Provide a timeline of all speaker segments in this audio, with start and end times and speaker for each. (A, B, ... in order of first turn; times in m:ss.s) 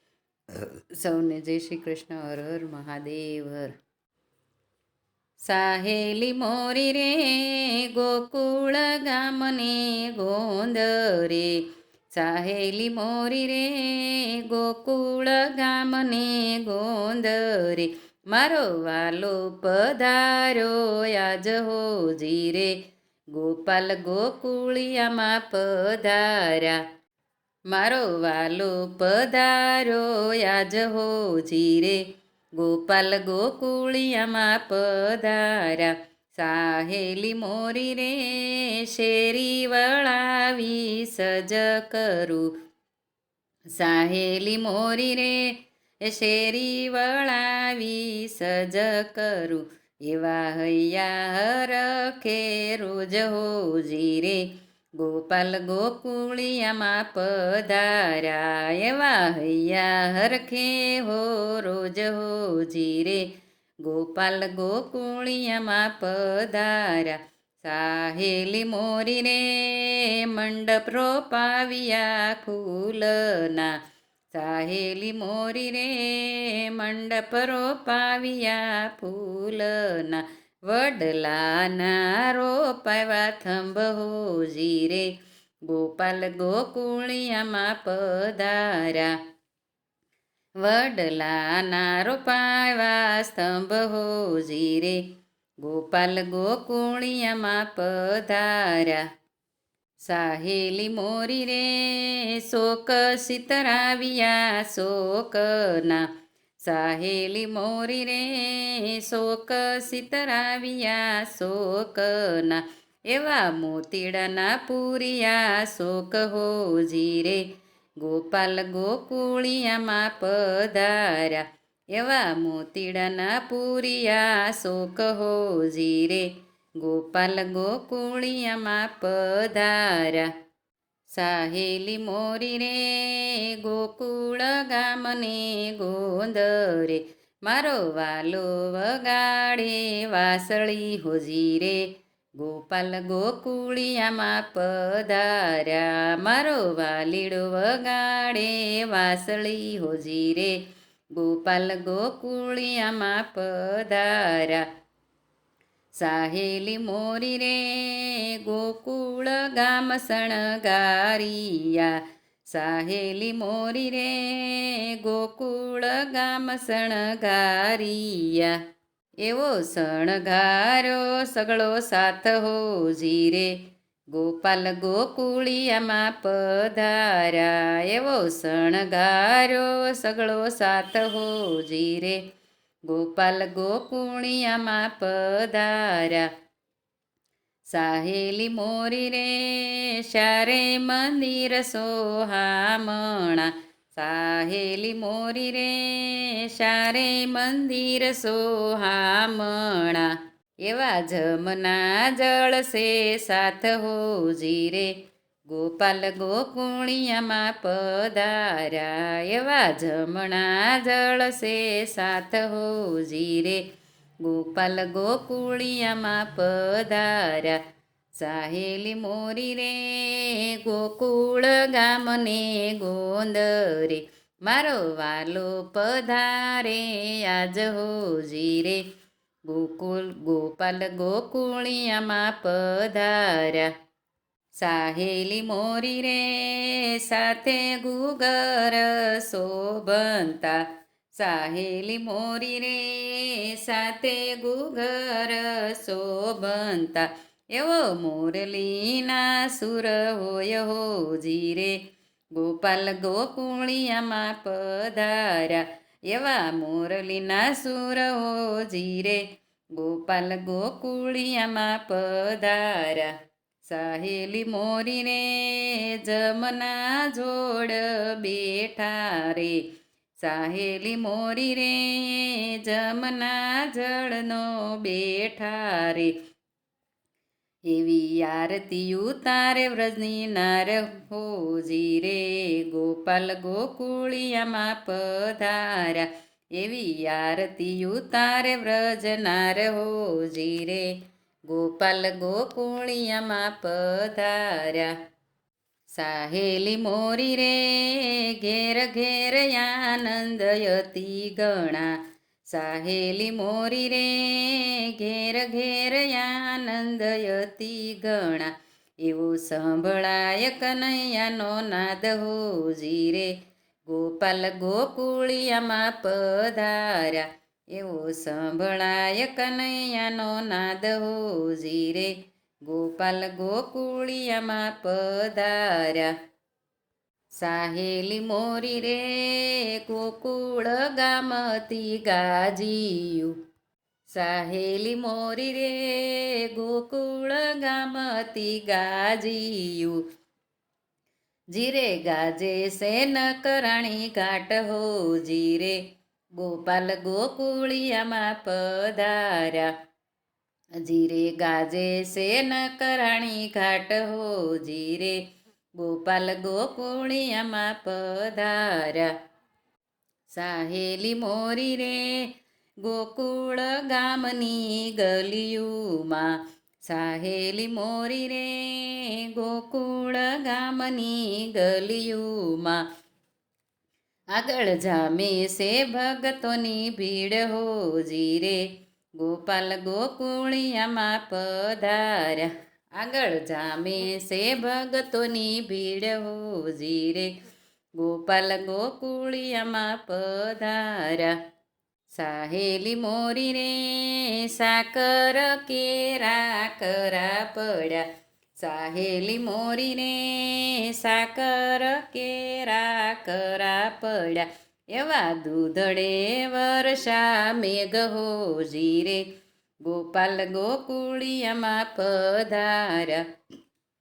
0:00.5-0:03.7 A
0:05.4-0:22.8 A
0:23.3-0:26.8 A
0:27.7-0:32.0 A
0:32.6-0:42.5 A
0:43.8-0:54.4 A
0:55.0-1:03.3 A
1:03.8-1:13.8 A
1:14.3-1:25.1 A
1:25.7-1:29.2 A
1:30.6-1:35.0 A
1:35.6-1:39.0 A
1:40.0-1:46.1 A
1:46.6-1:57.4 A
1:58.0-2:06.3 A
2:06.8-2:10.3 A
2:11.1-2:30.6 A
2:31.1-2:34.6 A
2:36.0-2:42.0 A
2:42.5-2:48.5 A
2:49.2-2:53.6 A
2:54.1-3:02.2 A
3:02.9-3:06.3 A
3:07.7-3:24.9 A
3:25.5-3:33.6 A
3:34.2-3:37.6 A
3:38.2-3:48.8 A
3:49.5-3:53.7 A
3:54.6-4:00.6 A
4:01.2-4:11.8 A
4:12.3-4:19.2 A
4:19.8-4:23.1 A
4:23.7-4:29.6 A
4:30.2-4:36.1 A
4:37.7-4:50.9 A
4:51.5-4:54.9 A
4:55.9-5:13.3 A
5:13.9-5:26.1 A
5:27.4-5:33.4 A
5:34.1-5:40.0 A
5:41.5-5:45.8 A
5:46.4-5:49.7 A
5:50.8-5:55.2 A
5:55.8-5:59.1 A
6:00.3-6:12.8 A
6:14.3-6:18.6 A
6:19.2-6:27.3 A
6:28.0-6:31.4 A
6:32.1-6:38.1 A
6:38.6-6:49.2 A
6:49.8-6:53.2 A